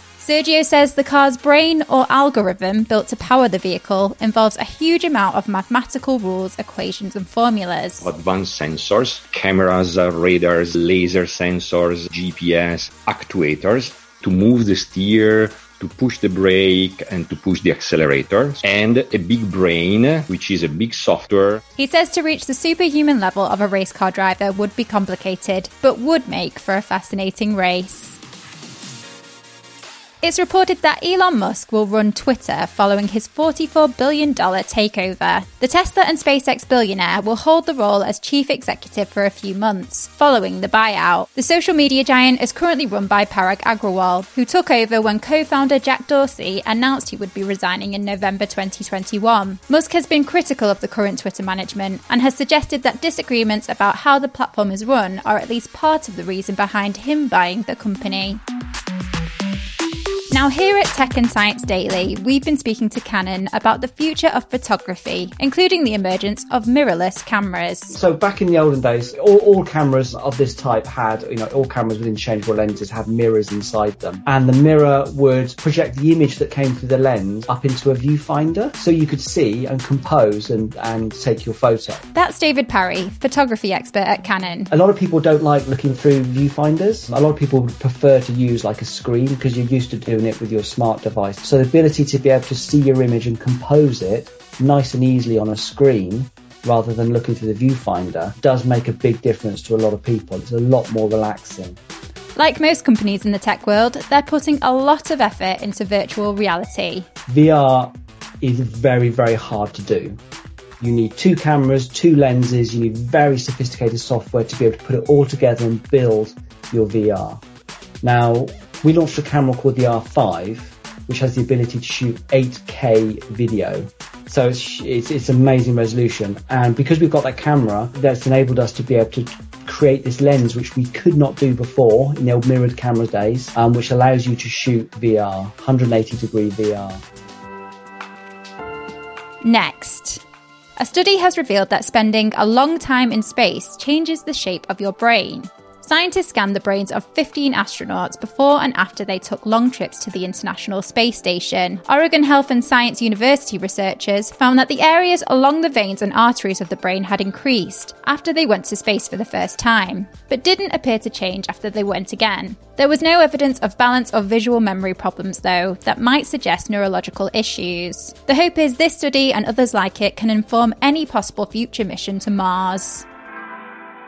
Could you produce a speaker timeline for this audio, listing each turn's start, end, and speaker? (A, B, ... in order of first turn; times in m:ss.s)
0:00.2-0:08.1 A
0:08.0-0:21.6 B
0:21.8-0:28.2 A
0:30.2-0:58.4 A
1:00.3-1:08.0 A
1:07.9-1:22.0 C
1:22.1-1:24.7 A
1:24.7-1:41.8 C
1:42.4-1:47.1 A
1:47.3-1:50.2 C
1:50.8-1:57.4 C
1:58.0-2:17.0 C
2:19.4-2:20.2 A
2:20.8-2:53.1 A